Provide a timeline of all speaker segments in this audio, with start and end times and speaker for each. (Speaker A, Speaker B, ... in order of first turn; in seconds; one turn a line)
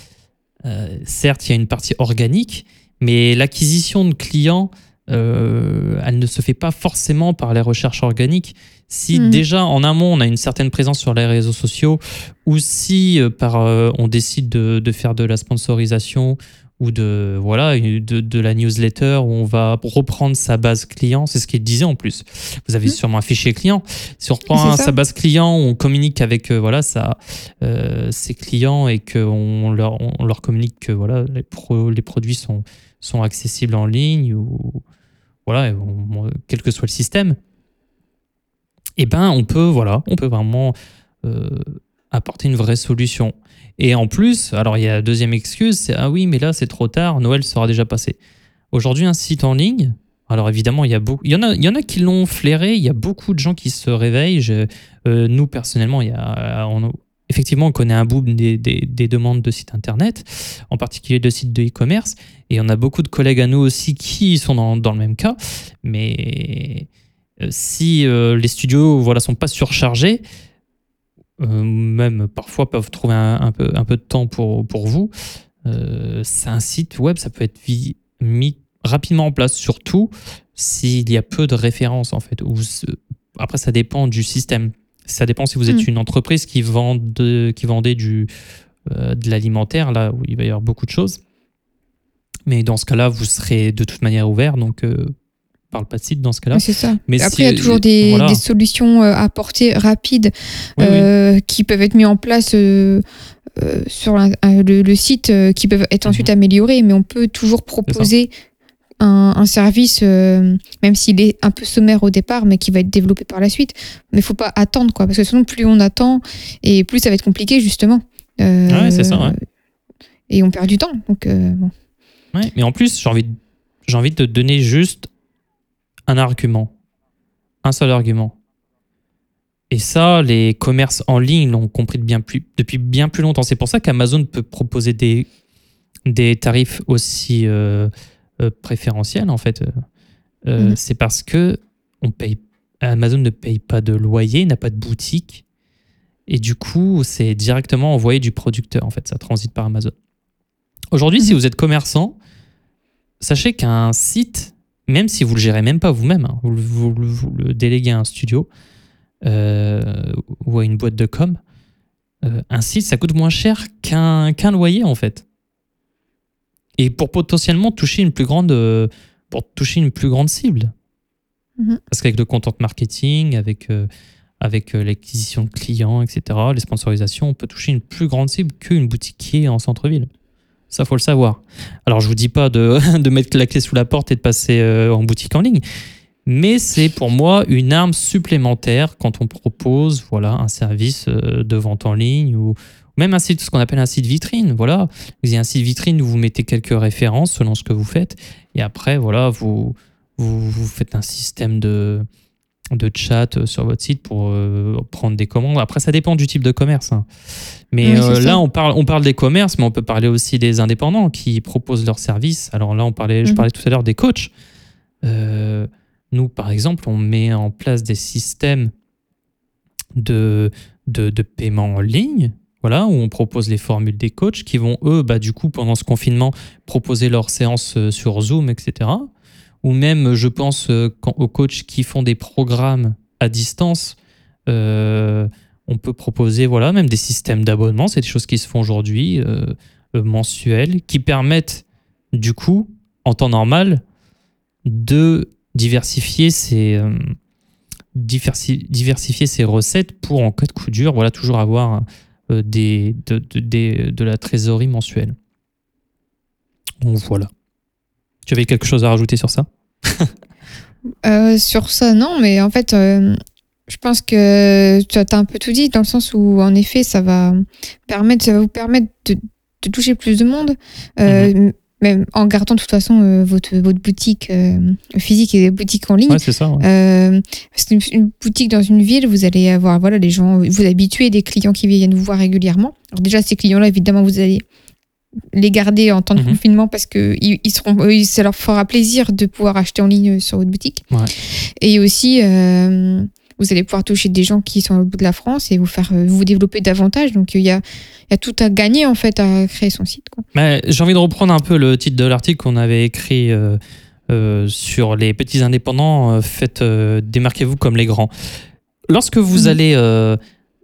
Speaker A: 0.7-34.8
Speaker B: 9.1-9.4
Speaker B: 24.5-24.9
Speaker A: 35.5-37.4
Speaker A: 39.0-48.2
Speaker A: 48.7-66.9
Speaker A: 67.4-70.2
Speaker A: 71.4-75.1
Speaker A: 75.7-88.3
Speaker A: 88.9-91.2
Speaker A: 92.5-95.1
Speaker A: 95.7-98.4
Speaker B: 96.5-103.0
Speaker A: 100.8-101.1
Speaker B: 103.6-108.3
Speaker B: 109.0-119.4
Speaker A: 118.7-119.3
Speaker B: 120.3-121.7
Speaker A: 122.3-125.1
Speaker A: 126.1-126.7
Speaker A: 127.6-128.3
Speaker A: 129.7-135.3
Speaker A: 136.1-139.7
Speaker A: 140.5-145.4
Speaker A: 146.3-149.9
Speaker A: 150.9-152.2
Speaker A: 153.2-158.5
Speaker A: 159.2-161.4
Speaker A: 162.2-165.2
Speaker A: 166.8-170.7
Speaker A: 171.9-173.9
Speaker A: 174.4-180.1
Speaker A: 180.7-185.6
Speaker A: 186.3-202.1
Speaker A: 202.7-207.1
Speaker A: 207.7-214.3
Speaker B: 207.8-208.4
Speaker A: 215.0-218.7
Speaker A: 219.9-229.1
Speaker A: 229.6-234.0
Speaker A: 234.5-243.8
Speaker A: 244.7-247.1
Speaker A: 247.9-255.2
Speaker A: 256.8-257.3
Speaker A: 258.3-260.1
Speaker B: 261.0-263.2
Speaker B: 263.7-284.4
Speaker A: 271.1-271.3
Speaker A: 276.1-276.6
Speaker B: 285.3-290.8
Speaker B: 291.6-300.2
Speaker A: 300.3-308.1
Speaker A: 308.9-310.2